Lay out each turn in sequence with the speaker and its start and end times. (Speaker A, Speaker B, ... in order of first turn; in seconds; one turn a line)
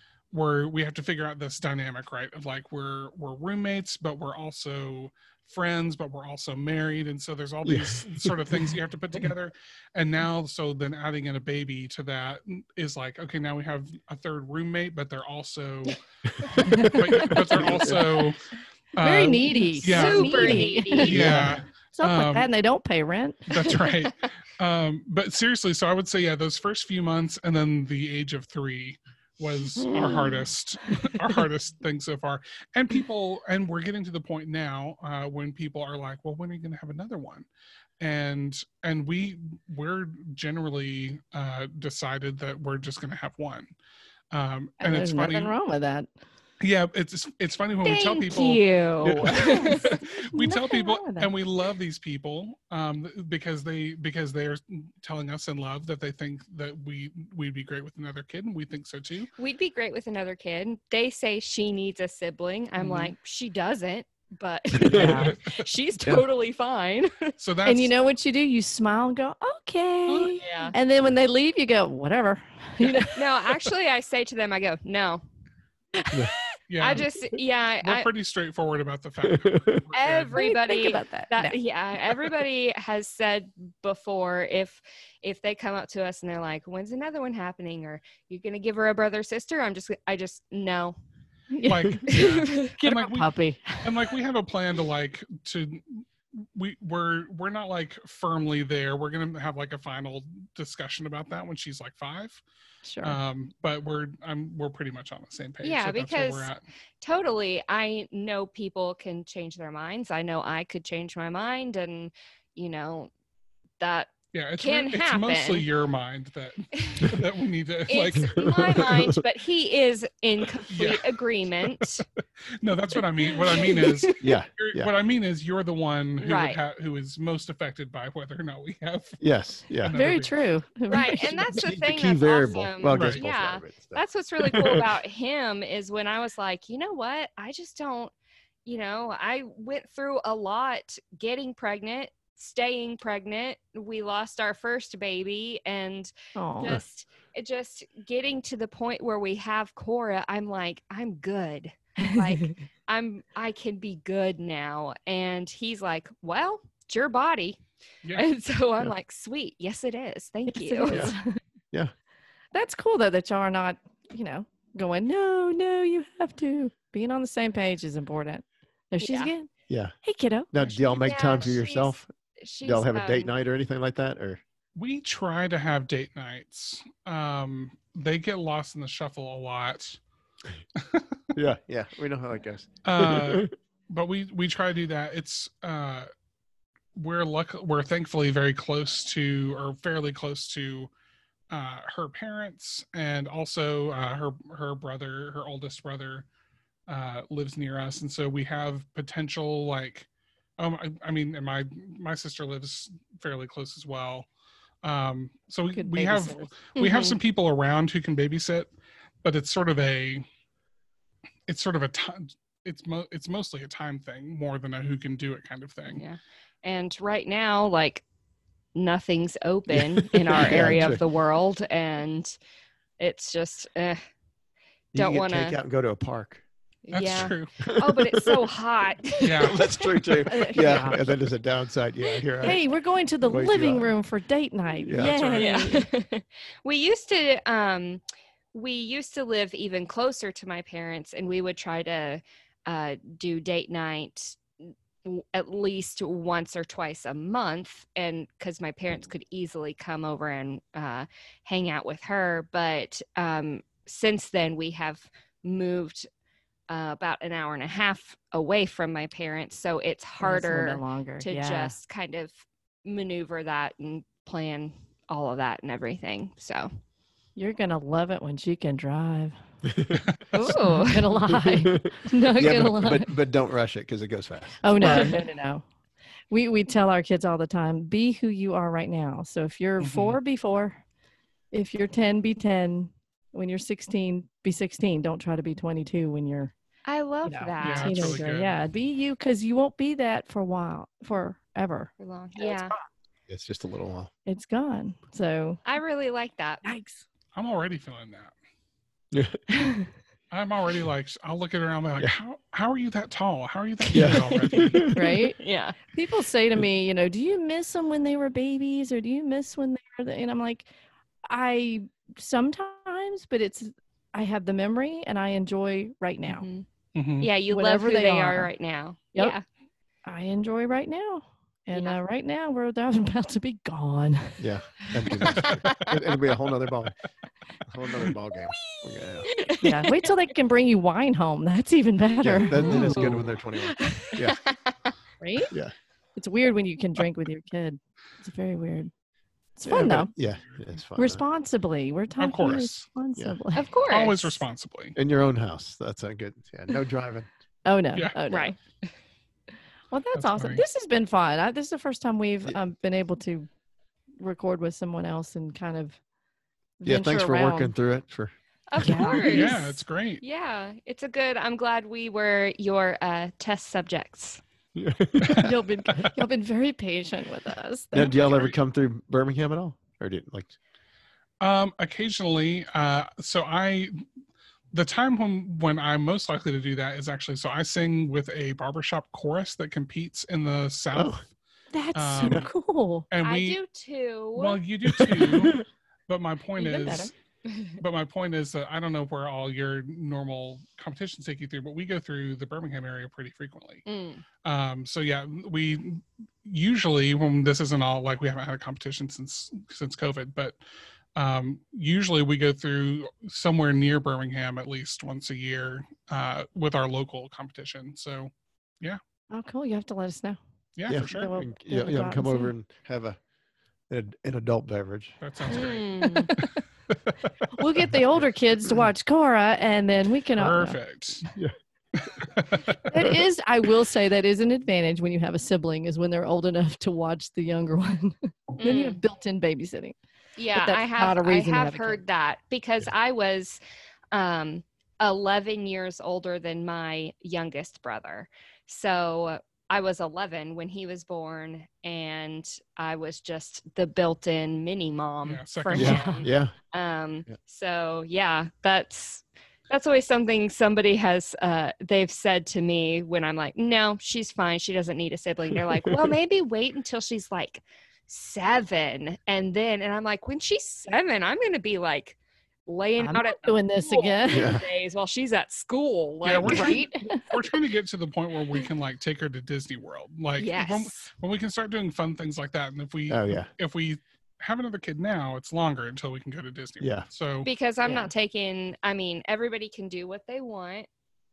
Speaker A: 0.3-16.0
Speaker B: 7.6-8.7
Speaker B: 16.3-18.1
Speaker C: 16.6-17.0
Speaker A: 16.7-18.4
Speaker A: 18.9-22.5
Speaker C: 19.0-21.5
Speaker D: 19.8-21.3
Speaker B: 21.1-21.6
Speaker C: 22.0-23.5
Speaker A: 23.5-37.5
Speaker D: 23.6-24.1
Speaker D: 30.0-30.3
Speaker A: 38.0-43.7
Speaker A: 44.3-45.5
Speaker C: 44.8-46.1
Speaker A: 46.6-59.3
Speaker D: 47.8-49.9
Speaker B: 49.0-49.5
Speaker C: 49.3-51.3
Speaker D: 59.4-67.3
Speaker A: 62.8-63.1
Speaker B: 64.8-65.3
Speaker C: 64.9-65.3
Speaker A: 67.4-67.9
Speaker C: 67.6-73.3
Speaker A: 70.1-70.3
Speaker D: 70.2-70.7
Speaker D: 73.1-75.2
Speaker C: 76.0-76.3
Speaker A: 76.7-77.0
Speaker D: 76.8-78.1
Speaker A: 77.8-80.4
Speaker B: 79.3-79.8
Speaker D: 79.9-91.0
Speaker C: 80.3-81.6
Speaker C: 91.5-92.2
Speaker A: 91.6-93.3
Speaker D: 92.1-92.8
Speaker C: 92.8-93.9
Speaker A: 93.8-102.4
Speaker C: 102.8-103.2
Speaker A: 103.0-106.6
Speaker D: 105.6-113.1
Speaker D: 113.8-115.7
Speaker A: 114.3-118.8
Speaker D: 116.7-117.0
Speaker D: 117.9-122.0
Speaker B: 118.2-119.2
Speaker A: 120.7-121.1
Speaker A: 122.6-129.2
Speaker D: 123.2-124.2
Speaker B: 124.2-124.9
Speaker D: 126.2-126.6
Speaker B: 129.2-130.0
Speaker A: 129.8-130.4
Speaker C: 129.8-131.5
Speaker D: 130.9-138.1
Speaker B: 131.5-134.9
Speaker A: 132.9-133.2
Speaker D: 138.7-157.6
Speaker C: 146.3-146.8
Speaker C: 152.0-152.5
Speaker D: 158.1-161.1
Speaker C: 160.5-161.3
Speaker B: 160.9-161.2
Speaker C: 162.5-169.5
Speaker D: 169.0-169.3
Speaker B: 169.7-169.9
Speaker C: 170.0-170.8
Speaker B: 170.5-172.1
Speaker D: 170.9-173.3
Speaker B: 172.6-174.4
Speaker A: 174.7-180.0
Speaker A: 180.8-181.2
Speaker B: 181.3-183.5
Speaker A: 182.8-186.1
Speaker A: 186.9-190.9
Speaker A: 191.5-196.3
Speaker A: 196.9-200.1
Speaker A: 200.6-204.3
Speaker A: 204.8-208.7
Speaker C: 205.7-206.5
Speaker D: 206.8-207.2
Speaker A: 209.2-210.2
Speaker A: 211.5-216.0
Speaker D: 215.9-218.0
Speaker D: 218.7-222.4
Speaker B: 219.7-221.0
Speaker D: 223.0-224.0
Speaker B: 224.9-226.4
Speaker D: 224.9-225.6
Speaker D: 226.8-229.6
Speaker A: 226.9-227.5
Speaker B: 227.0-228.5
Speaker A: 229.2-229.6
Speaker B: 229.4-232.6
Speaker C: 230.2-231.0
Speaker C: 232.4-235.9
Speaker B: 233.2-233.9
Speaker B: 234.8-235.4
Speaker A: 235.0-235.5
Speaker D: 235.3-238.0
Speaker D: 238.5-256.1
Speaker D: 256.7-266.7
Speaker C: 260.2-261.8
Speaker C: 267.4-269.4
Speaker B: 269.6-270.0
Speaker D: 270.3-271.1
Speaker C: 270.3-273.1
Speaker B: 271.2-275.1
Speaker C: 274.6-275.6
Speaker A: 274.8-275.1
Speaker C: 276.3-280.8
Speaker A: 279.8-280.2
Speaker C: 281.5-286.5
Speaker D: 286.9-288.2
Speaker C: 287.2-292.7
Speaker A: 287.6-288.6
Speaker D: 292.0-292.7
Speaker B: 293.3-294.1
Speaker C: 294.2-295.6
Speaker D: 295.6-296.6
Speaker C: 296.6-297.0
Speaker A: 297.3-298.3
Speaker B: 299.1-299.4
Speaker C: 299.5-299.8
Speaker A: 300.3-304.9
Speaker B: 303.9-305.2
Speaker D: 303.9-304.7
Speaker C: 304.9-305.4
Speaker D: 305.2-305.8
Speaker C: 305.9-310.7
Speaker C: 311.3-316.4
Speaker D: 316.3-316.6
Speaker A: 316.9-317.3
Speaker D: 317.2-319.4
Speaker C: 317.5-318.5
Speaker C: 320.0-324.4
Speaker D: 321.7-322.0
Speaker B: 324.4-327.0
Speaker D: 325.2-325.9
Speaker B: 327.6-329.3
Speaker D: 328.8-330.1
Speaker C: 329.6-333.2
Speaker B: 332.2-334.4
Speaker D: 332.4-334.9
Speaker C: 335.2-335.5
Speaker C: 336.1-338.9
Speaker C: 339.6-340.1
Speaker B: 339.6-341.2
Speaker C: 340.9-344.4
Speaker A: 342.2-342.9
Speaker D: 343.5-344.2
Speaker A: 343.9-344.9
Speaker B: 344.9-347.3
Speaker C: 347.6-348.6
Speaker D: 348.3-348.9
Speaker C: 349.9-353.5
Speaker A: 350.1-350.6
Speaker C: 354.2-356.0
Speaker C: 356.8-357.7
Speaker B: 356.9-358.3
Speaker D: 358.7-364.4
Speaker C: 358.8-359.4
Speaker A: 358.9-360.2
Speaker B: 364.7-365.6
Speaker A: 365.2-366.1
Speaker C: 365.3-368.4
Speaker B: 367.9-370.5
Speaker A: 368.2-368.5
Speaker A: 371.4-374.0
Speaker A: 374.7-381.2
Speaker B: 380.9-381.2
Speaker C: 381.7-383.1
Speaker A: 381.9-382.5
Speaker B: 382.2-382.5
Speaker A: 383.1-383.6
Speaker D: 383.2-384.6
Speaker A: 384.3-387.1
Speaker B: 384.9-385.6
Speaker C: 386.6-387.1
Speaker A: 387.8-393.8
Speaker D: 393.9-394.2
Speaker A: 394.4-400.6
Speaker A: 401.1-409.0
Speaker C: 409.3-410.4
Speaker A: 410.8-411.3
Speaker B: 410.9-413.2
Speaker C: 411.0-412.5
Speaker B: 413.9-415.2
Speaker A: 415.2-416.5
Speaker D: 415.5-416.3
Speaker C: 417.5-420.8
Speaker A: 420.4-421.2
Speaker A: 421.9-423.0
Speaker C: 422.9-429.9
Speaker D: 428.6-429.0
Speaker D: 430.4-433.6
Speaker C: 430.5-432.0
Speaker D: 434.1-466.7
Speaker A: 445.2-446.3
Speaker B: 445.7-446.5
Speaker C: 463.0-464.6
Speaker B: 464.3-464.6
Speaker A: 466.2-477.5
Speaker C: 466.4-467.4
Speaker D: 470.4-471.1
Speaker B: 473.1-473.5
Speaker B: 476.8-477.1
Speaker D: 477.4-480.9
Speaker C: 477.8-478.1